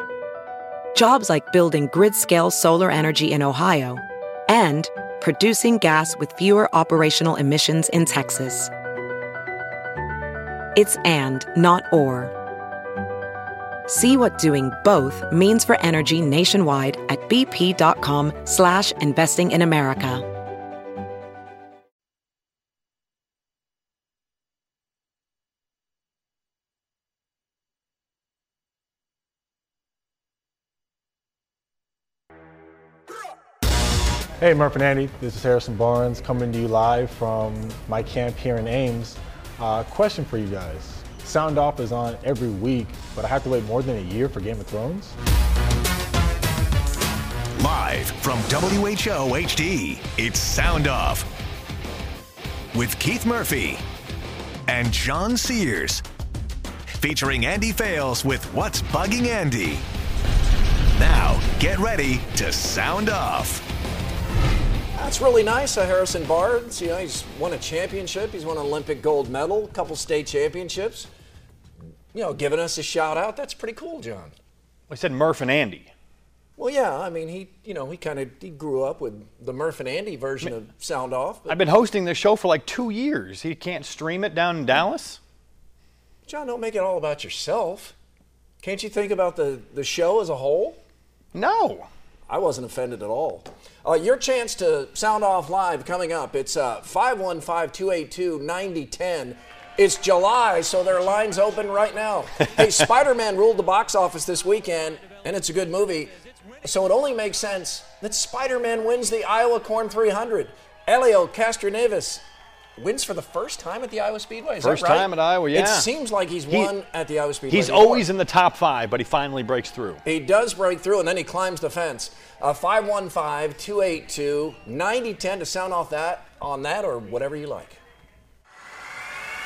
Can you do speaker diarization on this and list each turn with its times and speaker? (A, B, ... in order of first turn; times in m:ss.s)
0:00.9-0:08.7 A
0:10.7-0:12.3 A
0:13.9-0:20.2 A
0:34.4-0:45.1 B
0:47.6-0:51.3 C
0:52.7-0:53.8 C
0:54.7-0:56.0 C
0:56.9-0:59.8 C
1:00.9-1:03.6 C
1:05.0-1:11.1 D
1:12.1-1:14.3 D
1:14.9-1:15.9 E
1:16.6-1:21.6 D
1:21.5-1:25.2 E
1:26.3-1:27.9 D
1:28.6-1:30.8 D
1:31.3-1:31.9 E
1:32.3-1:58.1 D
1:54.6-1:55.9 E
1:57.5-2:00.0 E
2:00.0-2:07.8 D